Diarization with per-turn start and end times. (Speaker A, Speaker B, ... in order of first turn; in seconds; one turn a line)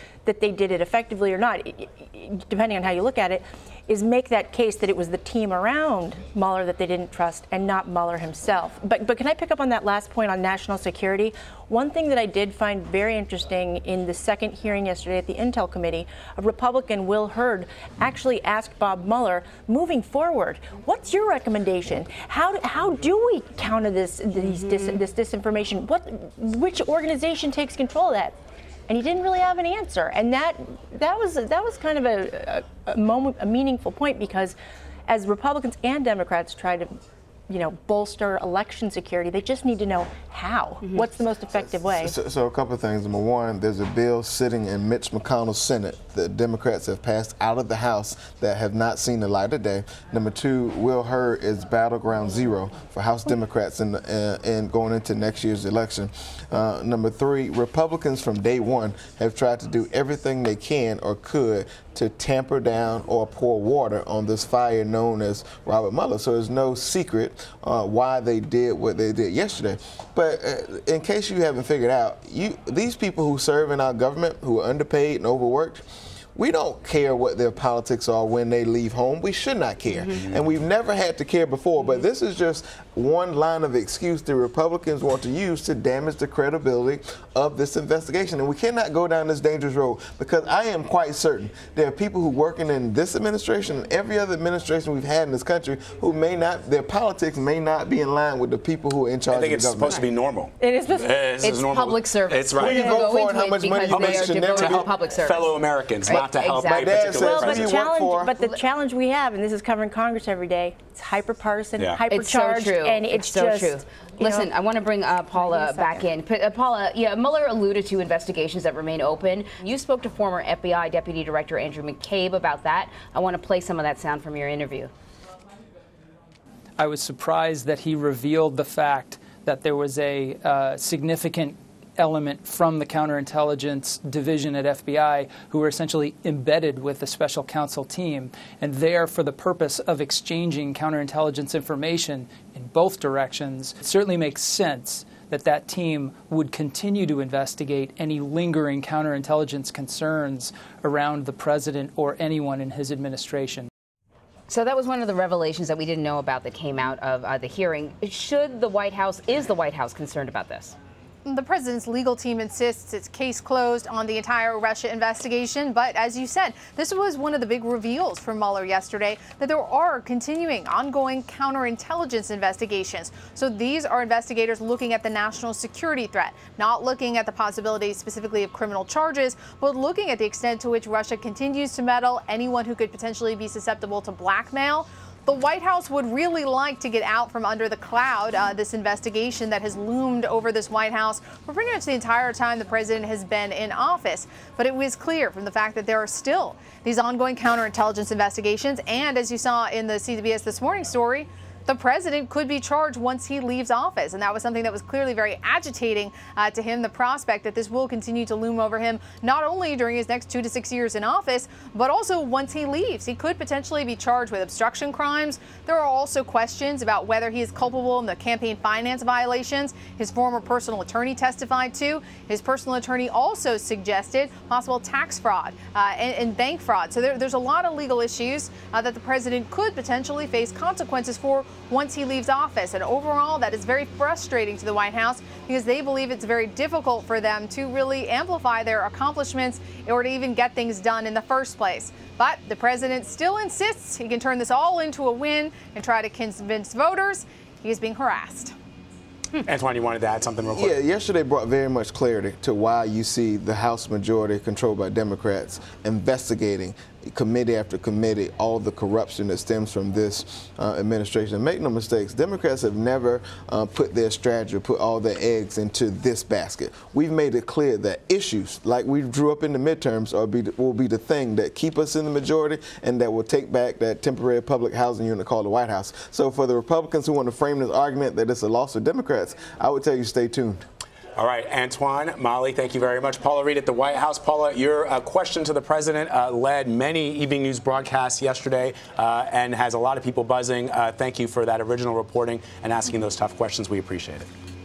Speaker A: 0.2-28.3
Speaker B: 24.4-25.0
Speaker A: 28.9-34.5
Speaker A: 35.1-36.9
Speaker A: 37.5-42.1
Speaker C: 41.5-75.8
Speaker C: 76.3-100.0
Speaker D: 80.1-80.5
Speaker D: 99.3-103.2
Speaker A: 100.7-101.1
Speaker B: 101.4-107.0
Speaker C: 102.5-104.9
Speaker D: 103.8-107.8
Speaker C: 106.7-108.3
Speaker A: 107.2-114.5
Speaker D: 111.8-112.0
Speaker B: 112.1-124.9
Speaker A: 115.3-116.0
Speaker E: 126.8-153.7
Speaker B: 154.5-160.8
Speaker F: 161.2-248.5
Speaker D: 249.4-250.8
Speaker C: 250.5-280.6
Speaker D: 281.1-294.3